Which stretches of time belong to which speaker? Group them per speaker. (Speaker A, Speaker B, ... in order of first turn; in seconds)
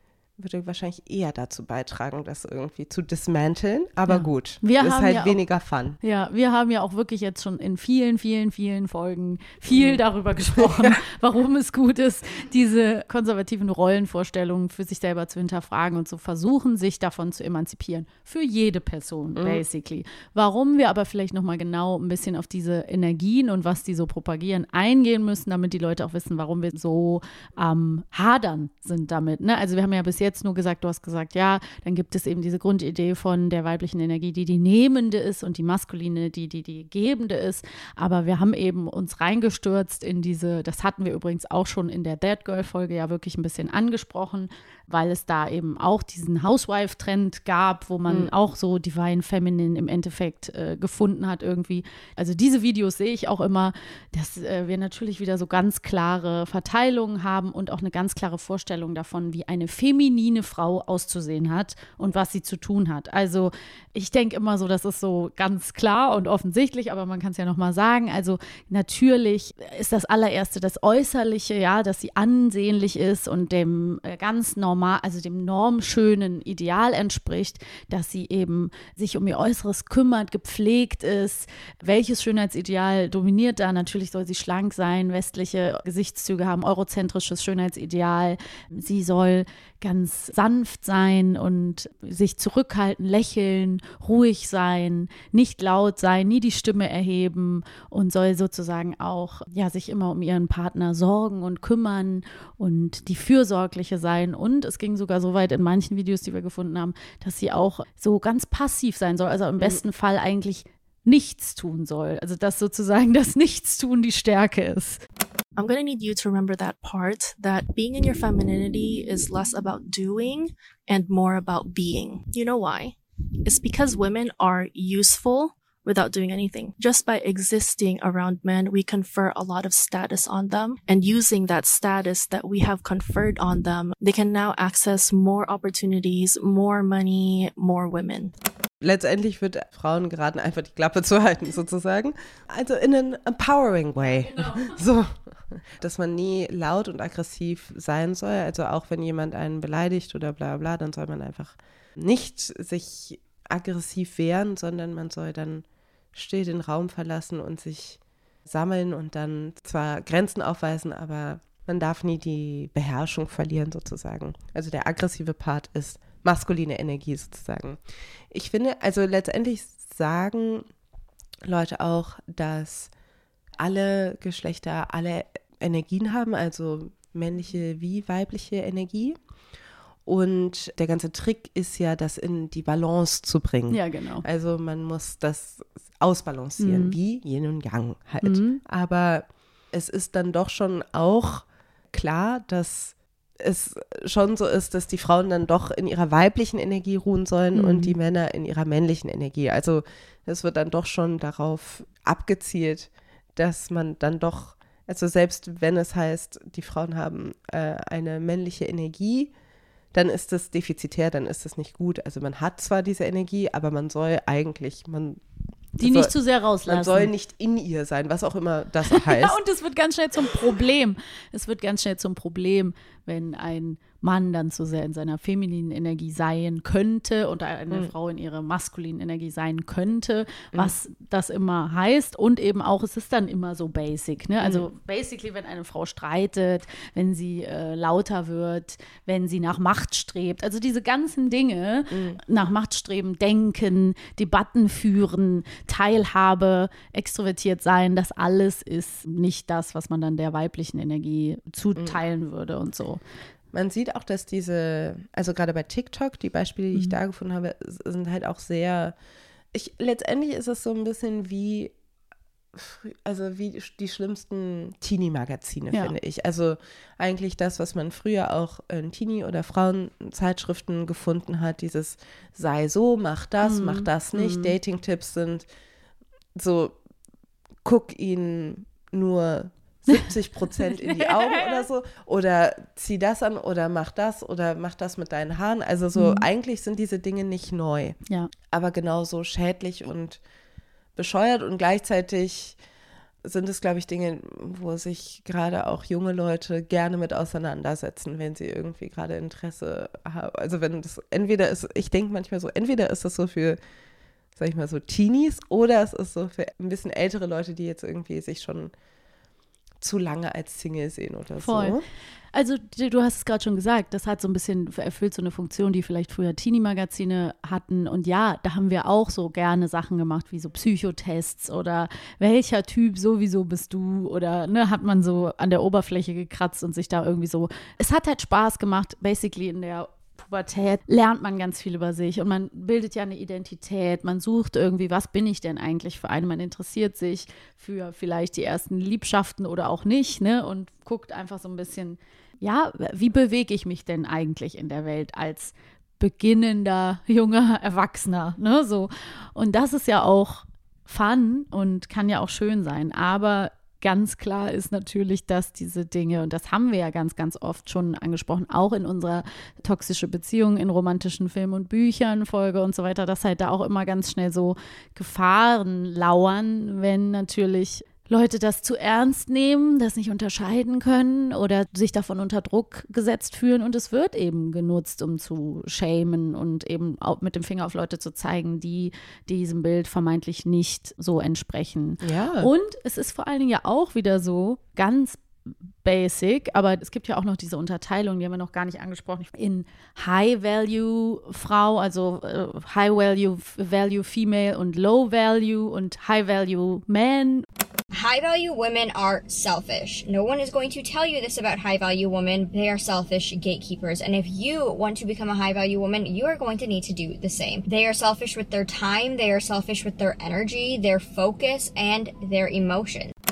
Speaker A: 0.4-6.0, 9.7-10.0, 10.6-11.0, 19.4-19.6, 138.8-167.8, 168.3-170.7, 171.4-172.9, 173.6-179.2, 180.1-209.3, 209.9-215.2, 215.8-216.1, 216.6-219.4, 241.9-242.2, 253.5-258.9, 259.5-261.7, 262.5-275.4, 276.4-276.8, 277.6-288.0, 288.5-290.2, 290.9-292.6, 293.2-303.6, 304.4-308.7, 309.8-311.8, 382.0-382.5
Speaker B: 4.1-5.4, 6.0-115.0, 144.2-144.8, 183.7-184.2, 186.6-186.9, 188.2-188.6, 197.5-197.9, 215.8-217.1, 218.9-253.0, 273.4-274.5, 279.9-281.7, 285.9-286.2, 311.4-311.8, 312.3-385.2, 385.8-397.4
Speaker C: 115.5-138.3
Speaker D: 397.9-413.1